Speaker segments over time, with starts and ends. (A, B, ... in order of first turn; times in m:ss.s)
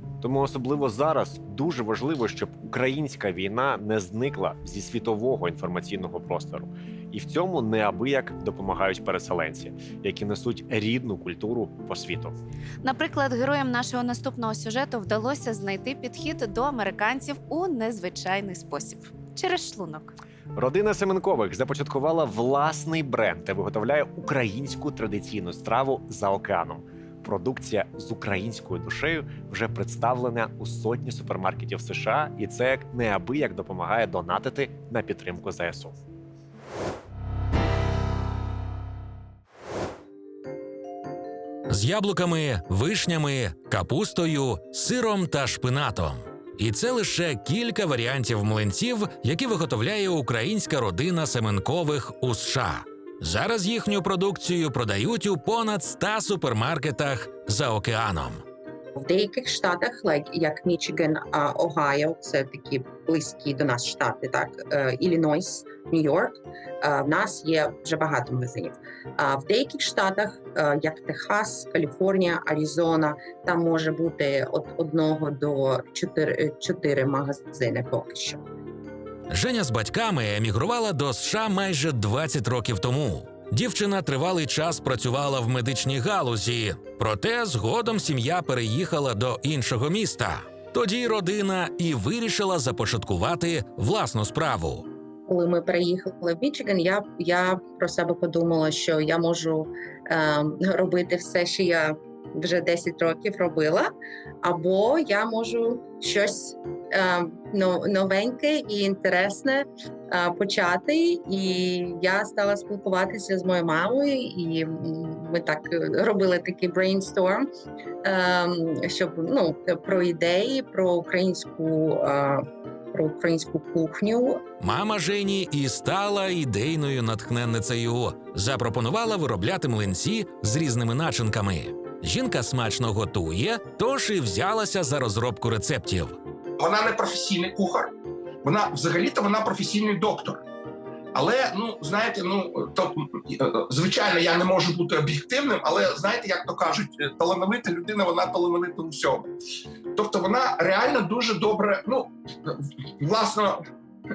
0:00.2-0:12.4 A
0:12.8-0:20.2 B
0:20.6-0:36.0 A
0:41.7-0:58.4 C
0:59.0-1:18.4 D
1:19.3-1:34.8 C
1:35.3-1:43.9 D
1:44.4-1:57.5 D
1:58.0-2:04.4 D
2:04.6-2:16.2 C
2:16.6-2:17.9 E
2:18.4-2:20.4 E
2:21.1-2:29.3 E
2:30.0-2:33.6 E